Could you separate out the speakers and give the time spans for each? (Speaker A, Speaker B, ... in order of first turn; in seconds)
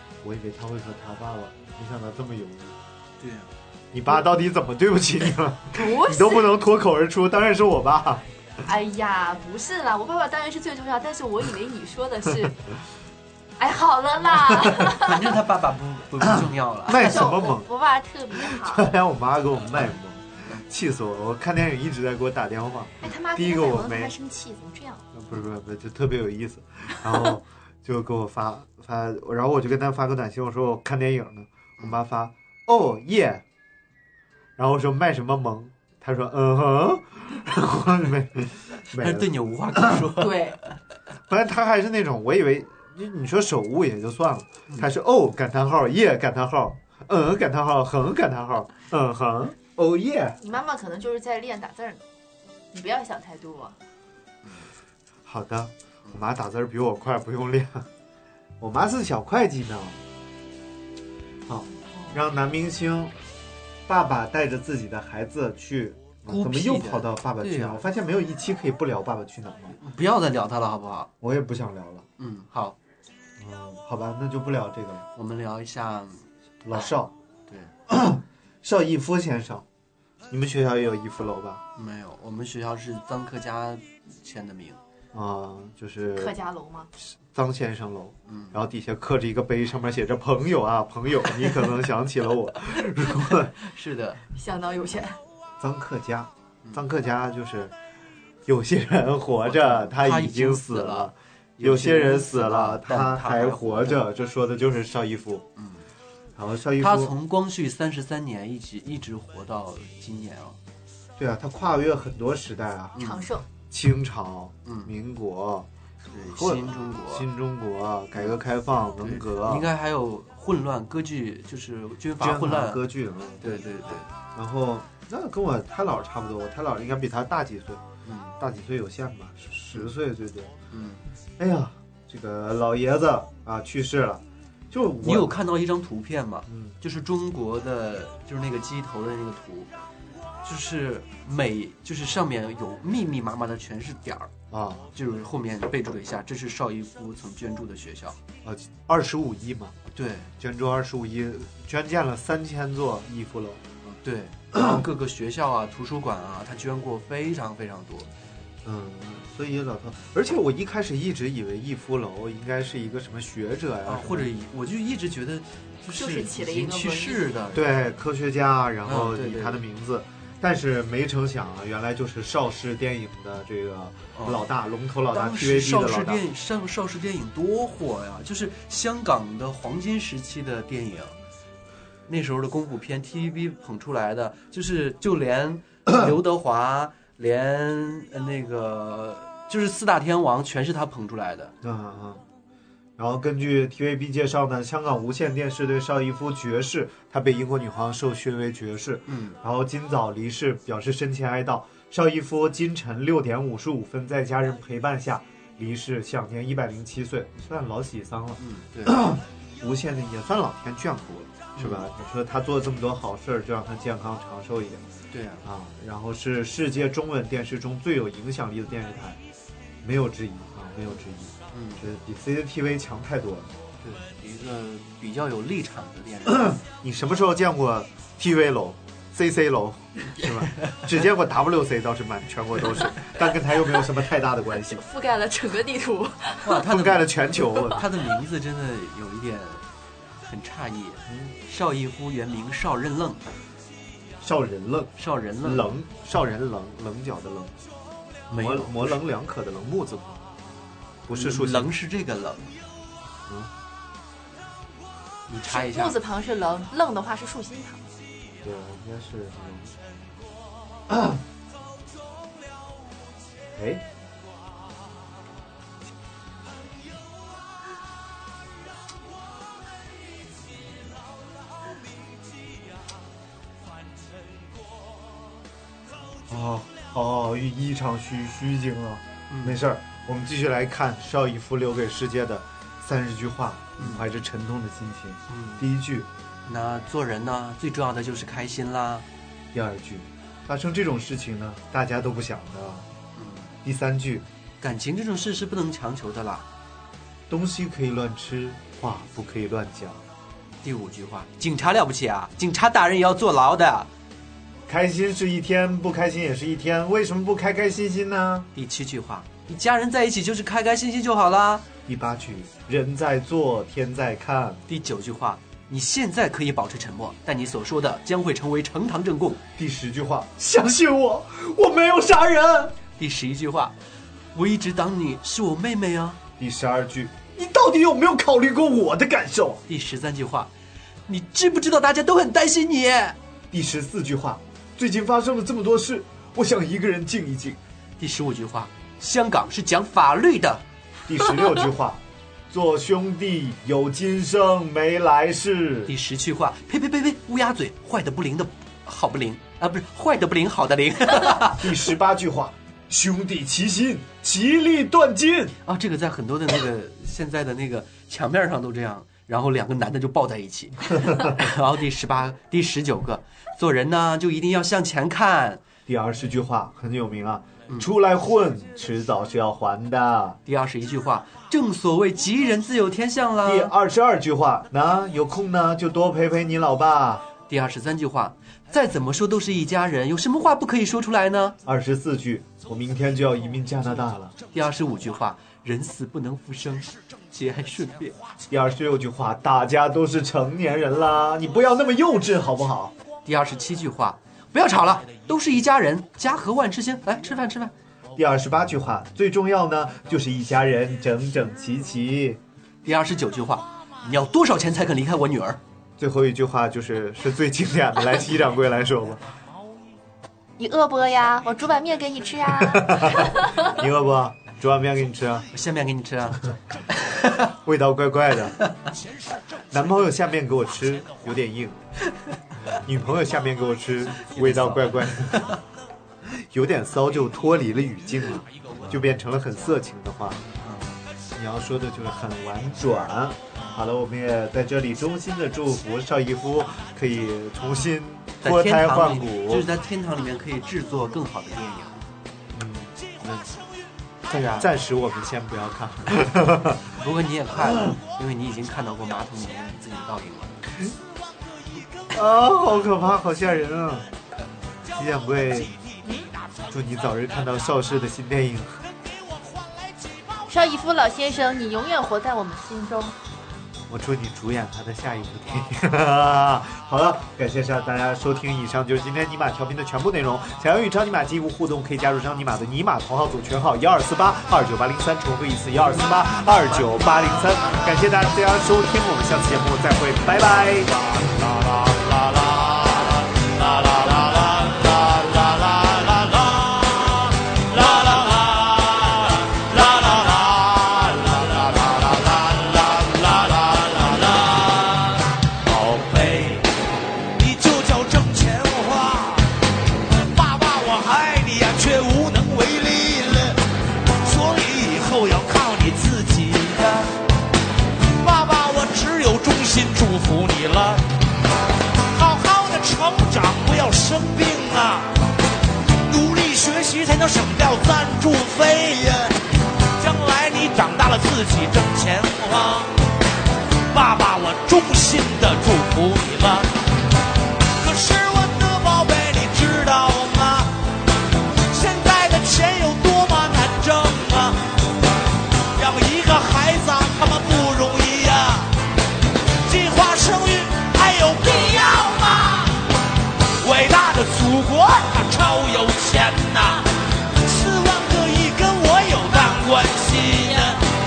Speaker A: 0.2-2.8, 3.9-8.2, 16.2-17.7, 18.3-24.1, 25.1-33.4, 34.6-40.1, 41.3-50.4, 55.2-57.9, 58.6-60.0, 61.5-63.1, 63.9-69.8, 71.2-72.0, 73.4-75.0, 76.6-77.1, 77.9-79.6, 80.3-81.6, 85.1-86.3, 87.0-93.5, 95.6-97.7, 98.5-105.5, 106.3-107.1, 111.2-113.0, 113.7-115.7, 116.2-119.7, 122.2-127.8, 128.4-130.5, 131.4-135.3, 136.5-136.7, 144.5-144.9, 148.4-149.7, 150.4-153.6, 154.5-154.8, 158.6-164.3, 167.5-176.2, 191.6-192.2, 193.0-214.8, 215.4-219.2, 219.8-223.5, 226.3-234.8, 236.6-237.8, 241.1-241.3, 244.2-247.6, 248.4-250.2, 251.1-251.7, 258.4-259.7, 260.9-261.2, 263.6-263.8, 276.3-286.1, 289.5-292.9, 293.6-294.2, 297.3-300.0, 304.7-308.5, 311.9-314.6, 319.6-322.8, 326.4-329.6, 333.5-337.6, 341.1-345.9, 351.5-355.5, 365.9-370.4, 373.4-377.2, 381.6-384.3, 388.5-392.9, 398.1-402.4, 406.0-409.2, 412.5-415.5, 417.4-418.6, 419.7-421.8, 422.8-425.5, 426.3-430.4, 431.3-439.7, 442.5-443.4, 444.3-446.9, 447.7-447.9, 452.1-454.1, 454.9-455.7, 456.7-458.8, 463.9-480.9
Speaker B: 3.2-3.5, 14.9-17.1, 39.0-40.7, 66.3-67.8, 69.8-71.1, 72.2-72.8, 75.1-76.3, 81.8-84.8, 88.3-88.6, 92.8-94.2, 99.4-104.1, 105.6-105.8, 106.8-110.6, 112.9-113.3, 114.6-114.9, 116.1-117.3, 119.0-122.8, 123.4-124.1, 128.0-128.3, 130.7-131.1, 135.0-139.7, 140.4-144.3, 144.9-148.2, 149.9-150.3, 153.8-158.1, 163.9-167.7, 168.8-169.6, 174.1-174.4, 175.1-181.2, 182.1-191.5, 199.1-199.4, 208.4-209.0, 211.6-211.8, 215.1-215.4, 221.5-221.8, 223.8-226.6, 236.4-239.6, 240.2-243.2, 245.0-245.7, 248.3-249.0, 251.1-252.6, 255.3-255.9, 279.3-279.6, 283.8-284.0, 285.3-285.6, 286.5-289.0, 293.1-293.5, 294.6-296.5, 300.6-303.9, 308.5-311.6, 314.7-319.4, 323.0-323.7, 324.3-326.2, 329.7-330.5, 331.1-333.2, 338.0-340.6, 345.9-351.7, 355.6-365.6, 370.4-373.7, 377.5-381.6, 384.5-388.1, 393.2-397.7, 402.8-405.6, 415.5-416.4, 416.9-417.4, 424.3-425.6, 430.6-431.0, 438.4-442.1, 446.9-450.6
Speaker C: 5.7-6.6, 8.6-12.6, 13.6-15.4, 16.9-18.9, 23.0-25.0, 40.2-40.6, 50.4-52.0, 52.7-53.8, 61.9-62.2, 86.1-86.9, 94.3-95.2, 113.0-113.4, 165.9-167.3, 234.7-236.6, 255.4-257.8, 410.6-413.5, 456.0-456.3, 460.5-463.1
Speaker D: 481.0-496.7, 497.4-499.5, 500.3-503.6, 504.2-507.1, 508.1-511.0, 512.1-515.1, 516.1-519.4, 520.0-523.0, 523.9-526.7, 527.8-530.8, 531.7-534.7, 535.7-538.8, 539.6-542.9, 543.6-550.9